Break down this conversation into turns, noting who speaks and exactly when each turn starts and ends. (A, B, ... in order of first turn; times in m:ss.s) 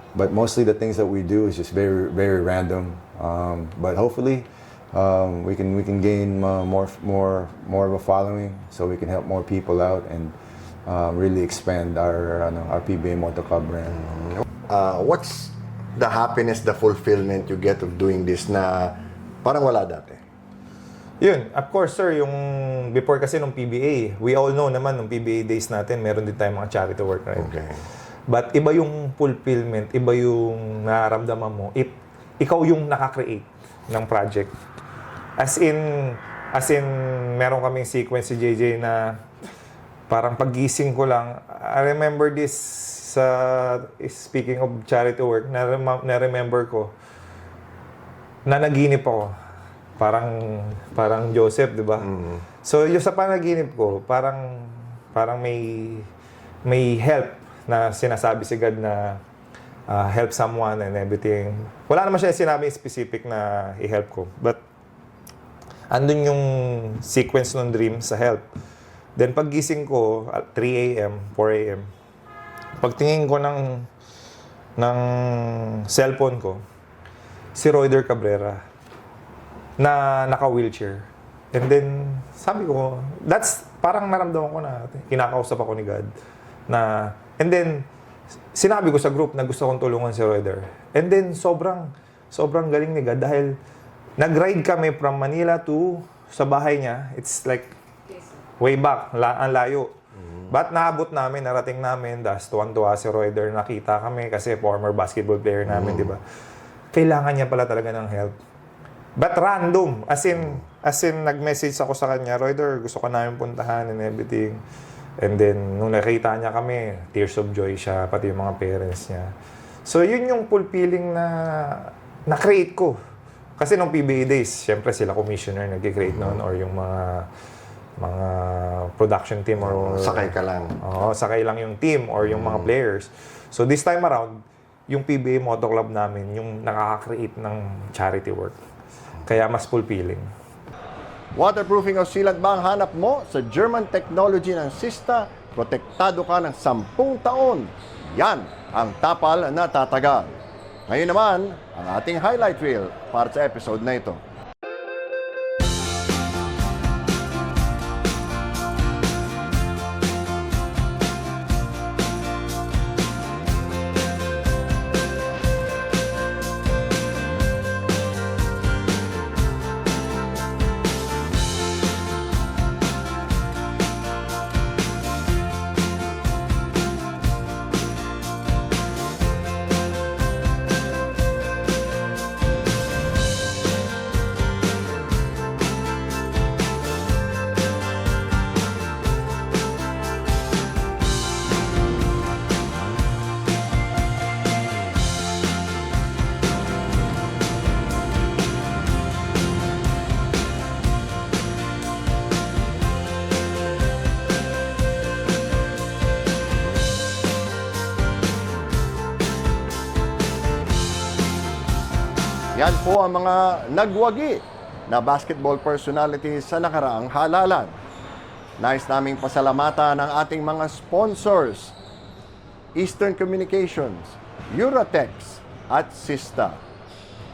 0:00.1-0:10.3 A
0:10.8-0:14.1 A
0:14.7-0:20.2 B
0:21.2-0:27.5 C
0:27.4-0:27.8 B
0:28.3-0:34.5 C
0:35.4-0:39.2 C
0:40.1-0:46.9 C
0:48.4-0:49.3 C
0:50.0-0:52.1 C
0:52.1-0:52.4 B
0:52.6-0:56.1 C
0:56.6-0:59.2 C
0:59.9-1:04.6 C
1:05.9-1:08.4 C
1:09.2-1:11.9 C
1:12.8-1:13.9 C
1:14.8-1:16.6 C
1:17.5-1:18.6 C
1:19.8-1:26.1 C
1:26.7-1:27.8 C
1:28.5-1:33.6 C
1:34.2-1:37.7 C
1:38.6-1:39.9 C
1:40.5-1:46.2 C
1:45.7-1:46.0 B
1:46.9-1:48.3 C
1:49.2-1:54.6 C
1:55.2-1:59.3 C
1:59.8-2:02.9 C
2:03.6-2:07.3 C
2:08.0-2:14.3 C
2:09.6-2:10.8 B
2:14.9-2:18.6 C
2:19.2-2:20.2 C
2:21.3-2:30.3 B
2:30.9-2:34.2 B
3:32.5-3:37.7 B
3:38.6-3:41.8 B
3:42.7-3:46.6 B